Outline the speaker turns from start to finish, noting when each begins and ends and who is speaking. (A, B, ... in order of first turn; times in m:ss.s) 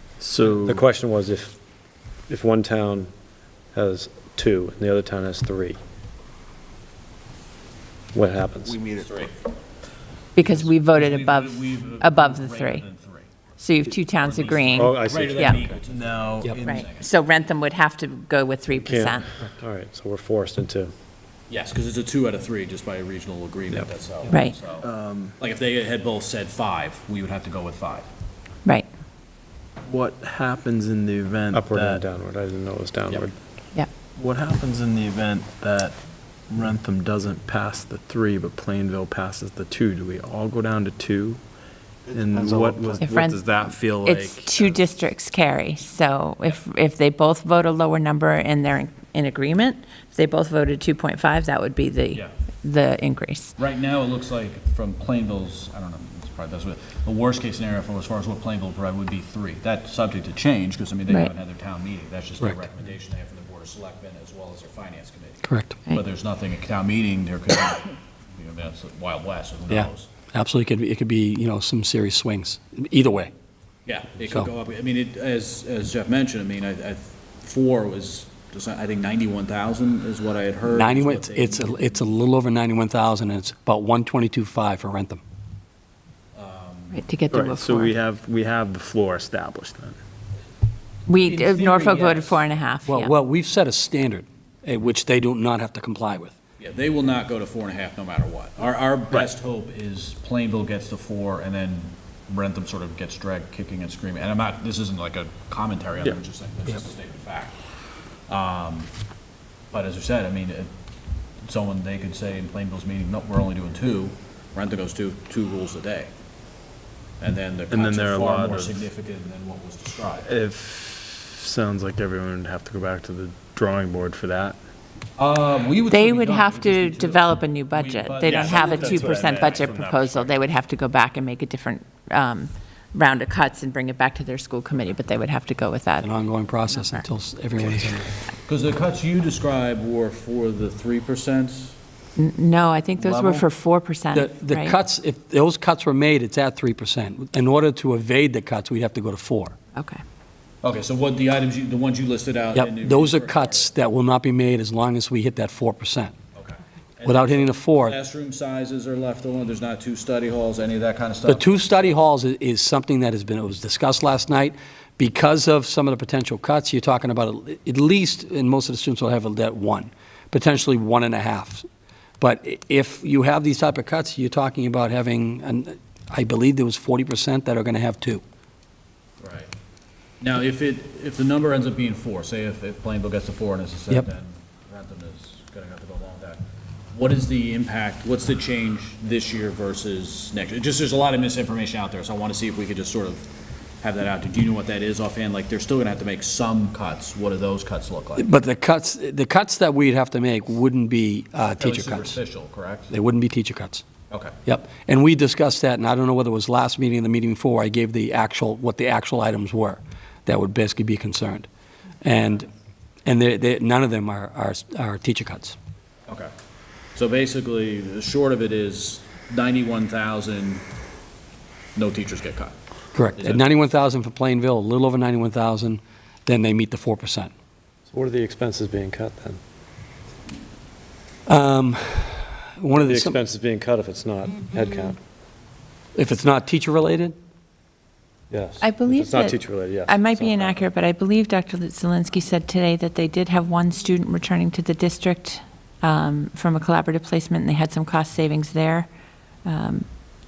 0:00.2-0:00.8 A
0:00.6-0:01.6 B
0:02.3-0:03.1 B
0:03.7-0:05.8 B
0:08.1-0:08.8 B
0:08.7-0:09.3 C
0:10.4-0:12.8 D
0:10.4-0:13.3 C
0:13.6-0:15.6 D
0:13.9-0:17.1 C
0:14.8-0:15.7 B
0:15.9-0:16.6 A
0:16.6-0:19.4 D
0:18.7-0:20.9 B
0:21.5-0:24.9 C
0:24.3-0:24.5 D
0:24.8-0:25.3 A
0:25.4-0:28.1 C
0:29.8-0:32.0 A
0:31.5-0:33.3 B
0:34.2-0:36.0 A
0:36.5-0:41.4 A
0:42.1-0:44.4 A
0:42.4-0:42.7 C
0:43.0-0:43.4 D
0:44.0-0:53.5 D
0:53.6-1:10.1 C
1:05.4-1:05.7 E
1:09.7-1:13.3 E
1:13.8-1:21.8 C
1:20.7-1:25.2 E
1:26.3-1:27.0 C
1:26.9-1:27.9 D
1:27.3-1:30.0 A
1:31.1-1:33.1 D
1:31.2-1:32.4 C
1:32.8-1:36.3 E
1:36.6-1:47.6 C
1:48.3-1:48.9 C
1:49.7-1:50.7 C
1:51.4-1:56.1 C
1:57.2-2:00.3 C
1:57.7-1:58.8 A
2:00.2-2:04.6 A
2:05.2-2:10.3 C
2:05.9-2:16.2 D
2:08.3-2:09.8 A
2:16.0-2:18.1 E
2:16.7-2:17.0 D
2:18.4-2:21.8 C
2:22.2-2:24.8 D
2:23.0-2:23.4 C
2:24.1-2:29.6 E
2:29.7-2:30.0 D
2:30.6-2:33.7 C
2:32.5-2:36.1 E
2:36.3-2:42.0 C
2:37.0-2:38.0 E
2:41.2-2:51.6 E
2:52.2-2:58.2 E
2:59.2-2:59.5 C
3:00.2-3:06.4 C
3:06.9-3:13.3 C
3:13.8-3:18.3 C
3:18.2-3:22.1 E
3:21.6-3:22.9 C
3:22.9-3:23.8 E
3:24.1-3:24.3 C
3:24.4-3:31.5 E
3:32.0-3:32.5 E
3:33.0-3:35.5 E
3:36.9-3:40.6 C
3:41.7-3:42.5 C
3:42.9-3:47.3 E
3:43.2-3:43.5 C
3:47.9-3:49.4 B
3:51.3-3:53.2 E
3:52.7-3:55.0 B
3:55.9-3:57.1 E
3:58.3-4:00.6 B
3:58.6-4:08.9 D
4:09.4-4:09.9 D